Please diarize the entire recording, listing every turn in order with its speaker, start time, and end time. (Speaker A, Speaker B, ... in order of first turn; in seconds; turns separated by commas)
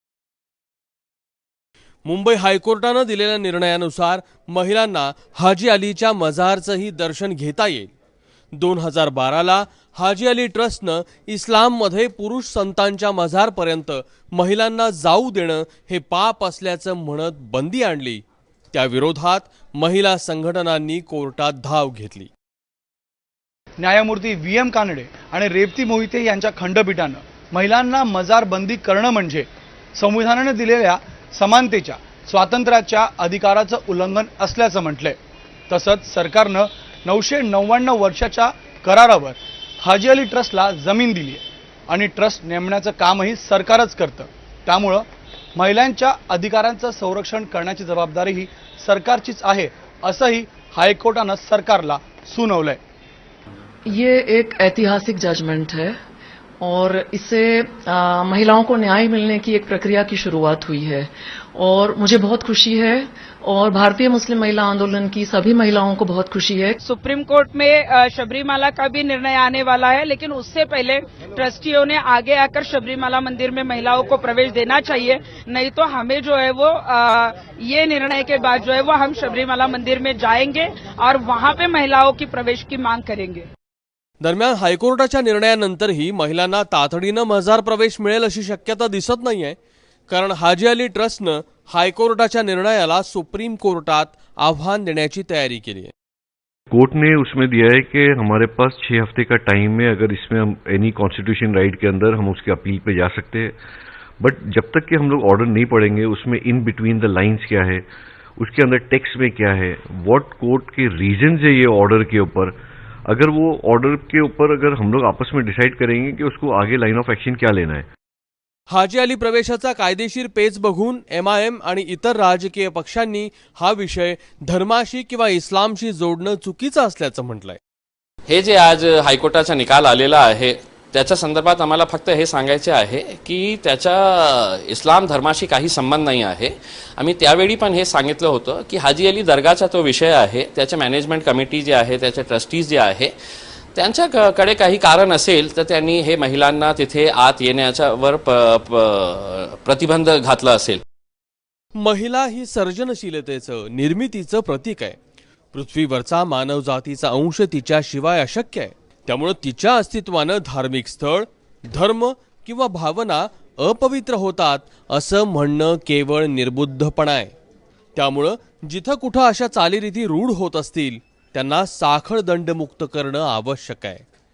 Speaker A: 2.0-7.9, Speaker A: 8.5-22.3, Speaker B: 23.8-35.2, Speaker B: 35.7-52.8, Speaker C: 53.9-55.9, Speaker C: 56.6-66.8, Speaker D: 66.8-83.5, Speaker A: 84.2-89.6, Speaker A: 90.1-95.9, Speaker E: 96.7-103.5, Speaker E: 104.2-107.8, Speaker E: 108.4-112.5, Speaker E: 113.1-117.8, Speaker A: 118.7-127.6, Speaker F: 128.3-143.1, Speaker F: 143.7-150.8, Speaker A: 151.8-155.0, Speaker A: 155.5-167.3, Speaker A: 167.9-174.0